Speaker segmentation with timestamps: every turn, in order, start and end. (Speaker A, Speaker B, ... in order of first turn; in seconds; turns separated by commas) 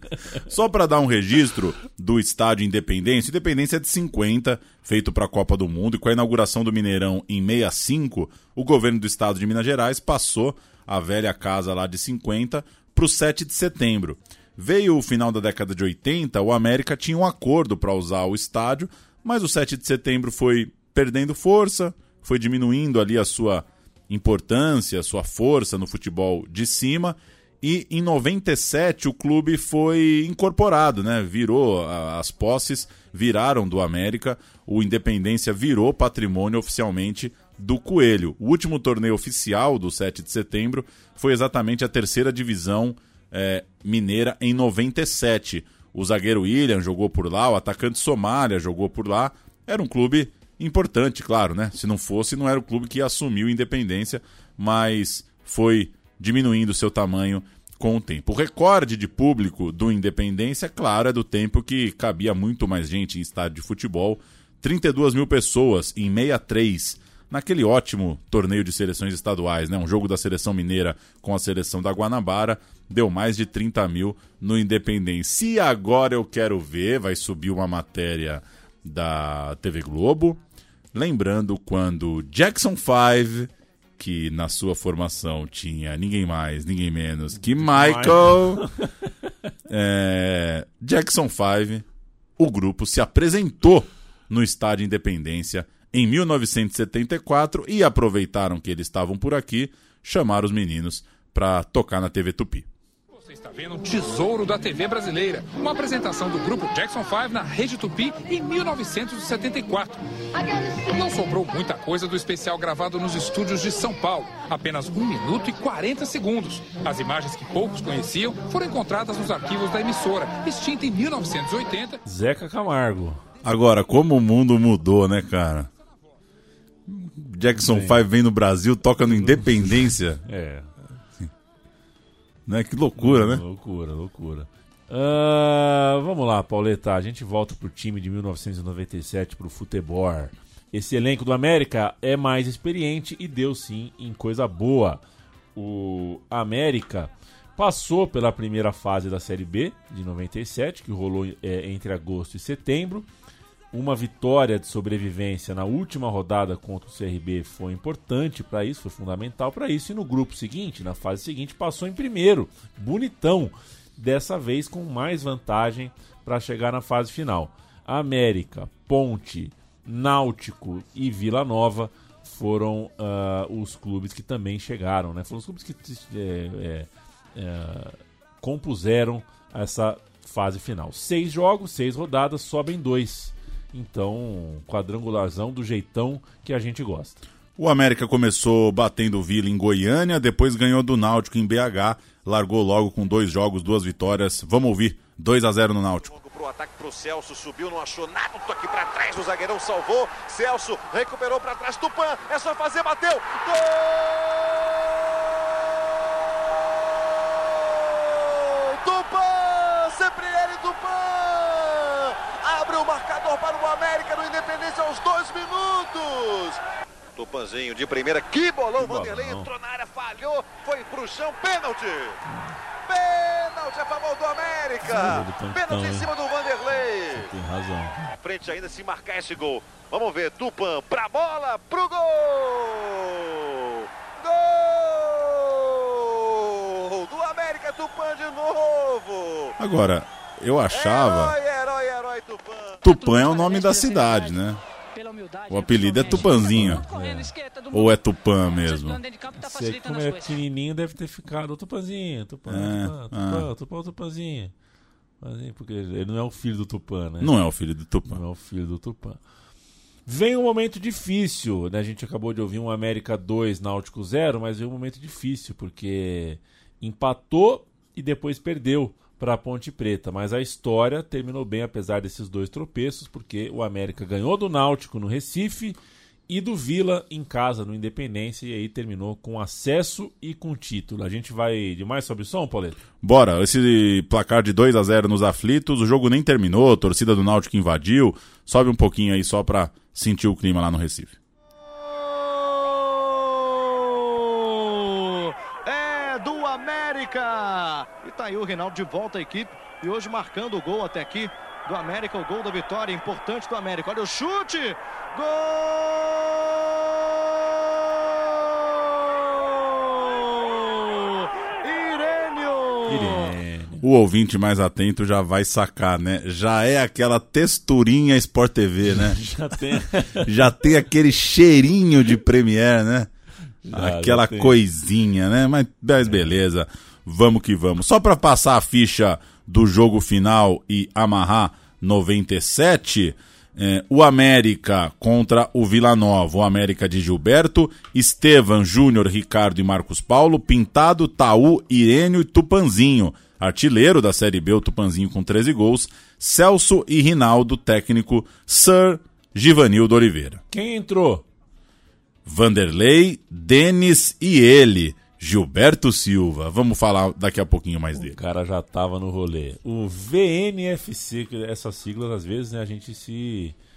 Speaker A: 0.5-80.4, Speaker A: 80.9-88.6, Speaker B: 87.5-88.7, Speaker A: 89.7-91.8, Speaker A: 92.4-102.7, Speaker C: 103.2-110.0, Speaker C: 110.8-122.0, Speaker B: 122.0-123.2, Speaker A: 123.4-125.7, Speaker A: 126.9-130.2, Speaker B: 127.6-128.0, Speaker B: 129.1-130.7, Speaker A: 132.4-133.4, Speaker B: 133.0-145.0, Speaker B: 145.5-153.1, Speaker B: 153.7-187.2, Speaker A: 187.6-196.1, Speaker D: 196.1-216.6, Speaker D: 217.1-222.2, Speaker B: 218.8-219.5, Speaker B: 222.3-222.5, Speaker D: 222.9-227.3, Speaker B: 224.8-226.1, Speaker B: 227.1-228.1, Speaker D: 228.2-239.5, Speaker A: 239.6-241.3, Speaker D: 240.7-242.8, Speaker A: 242.8-244.6, Speaker A: 245.5-246.8, Speaker B: 246.0-247.3, Speaker A: 247.7-249.0, Speaker B: 249.3-254.5, Speaker A: 252.5-253.5, Speaker B: 255.2-257.3, Speaker A: 257.2-258.2, Speaker B: 258.1-259.2, Speaker B: 260.1-282.8, Speaker A: 283.0-291.2, Speaker E: 295.7-305.6, Speaker E: 311.6-312.7, Speaker B: 312.9-313.8, Speaker A: 313.8-319.2, Speaker B: 318.9-320.3, Speaker A: 320.2-323.1, Speaker B: 323.6-324.6, Speaker A: 323.7-350.4, Speaker B: 326.0-326.4, Speaker B: 350.5-351.2, Speaker A: 352.2-358.1, Speaker B: 357.9-363.6